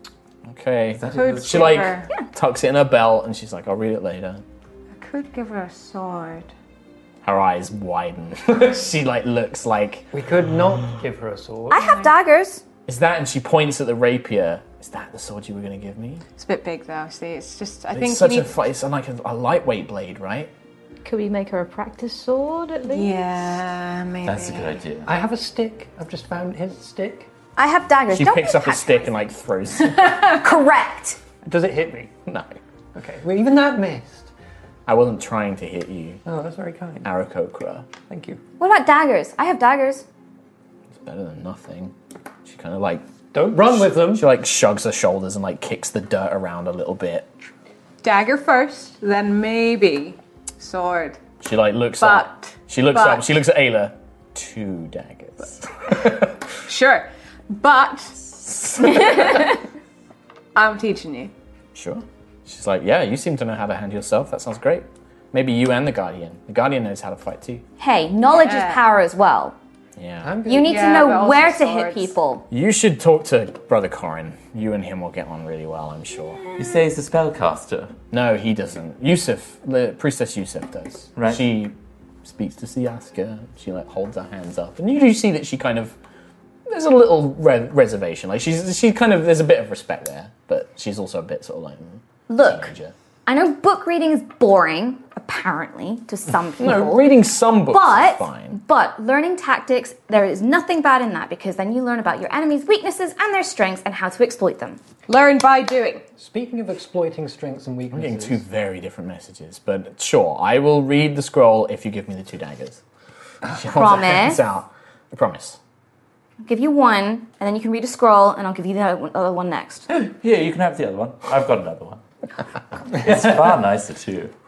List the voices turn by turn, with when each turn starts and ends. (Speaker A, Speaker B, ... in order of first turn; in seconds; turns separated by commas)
Speaker A: 0.5-4.4, Speaker B: 1.0-2.0, Speaker C: 1.1-2.1, Speaker C: 5.0-6.5, Speaker A: 7.2-10.1, Speaker D: 10.1-11.9, Speaker E: 11.7-12.6, Speaker C: 11.8-12.1, Speaker A: 12.9-16.2, Speaker C: 16.4-18.5, Speaker A: 17.9-20.5, Speaker F: 21.1-23.2, Speaker C: 22.9-24.8, Speaker B: 24.2-25.1, Speaker D: 25.1-27.3, Speaker E: 27.6-29.1, Speaker A: 28.1-30.2, Speaker E: 30.1-31.2, Speaker D: 31.4-32.1, Speaker A: 32.3-32.5, Speaker D: 33.0-34.3, Speaker A: 34.9-36.2, Speaker D: 36.3-37.1, Speaker A: 37.0-37.9, Speaker D: 38.1-38.4, Speaker E: 38.6-40.0, Speaker A: 40.9-41.9, Speaker A: 42.5-43.0, Speaker D: 43.3-44.3, Speaker A: 43.6-47.3, Speaker C: 48.0-51.2, Speaker A: 51.4-56.4, Speaker C: 52.0-53.3, Speaker C: 56.6-58.2, Speaker A: 58.5-59.4, Speaker C: 58.8-59.5, Speaker C: 60.5-61.3, Speaker A: 61.7-67.7, Speaker E: 67.8-69.6, Speaker C: 68.3-68.8, Speaker A: 70.0-70.3, Speaker D: 70.2-70.9, Speaker E: 70.5-72.5, Speaker C: 70.6-72.1, Speaker A: 72.5-76.4, Speaker B: 76.6-78.0, Speaker A: 78.1-86.0, Speaker B: 81.2-81.4, Speaker A: 86.7-92.9, Speaker E: 92.3-92.7, Speaker E: 93.3-97.0, Speaker A: 96.6-98.6, Speaker E: 97.7-104.8, Speaker C: 105.1-106.0, Speaker D: 106.2-108.4, Speaker A: 107.9-112.8, Speaker A: 113.4-115.6, Speaker E: 113.7-114.4, Speaker E: 116.4-119.9, Speaker B: 119.9-122.0, Speaker B: 122.9-124.3